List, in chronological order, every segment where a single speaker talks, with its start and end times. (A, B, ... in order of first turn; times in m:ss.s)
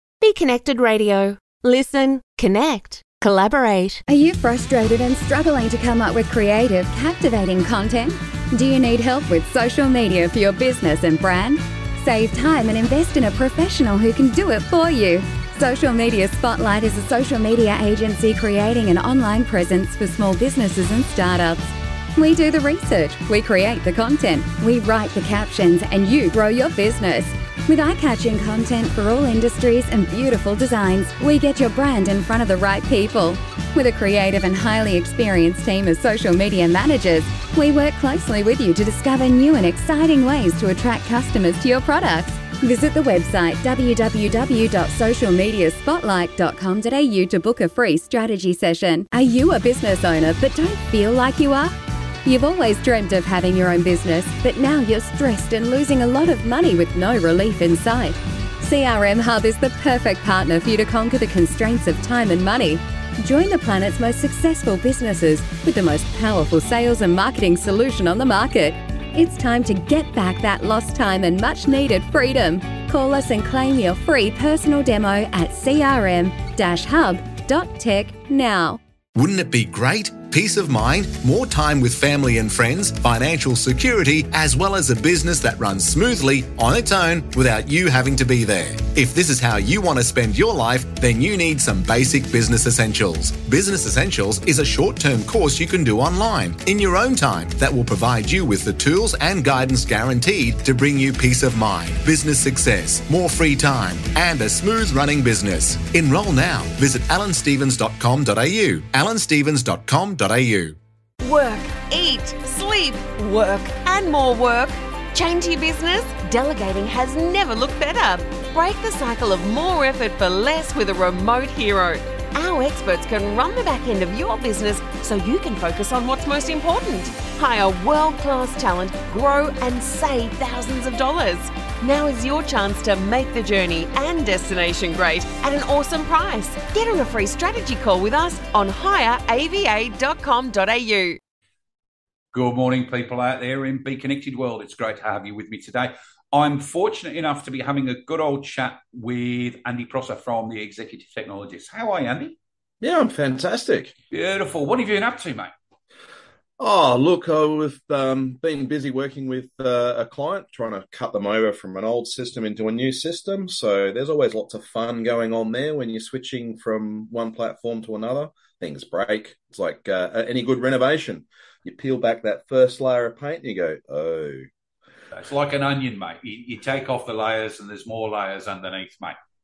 0:00.2-0:04.0 A
0:04.1-1:18.8 B
1:19.2-1:50.8 C
1:51.2-2:21.2 D
2:22.3-2:32.4 E
2:32.8-2:33.9 F
2:34.1-2:35.5 E
2:36.6-2:54.5 F
2:55.1-2:59.2 E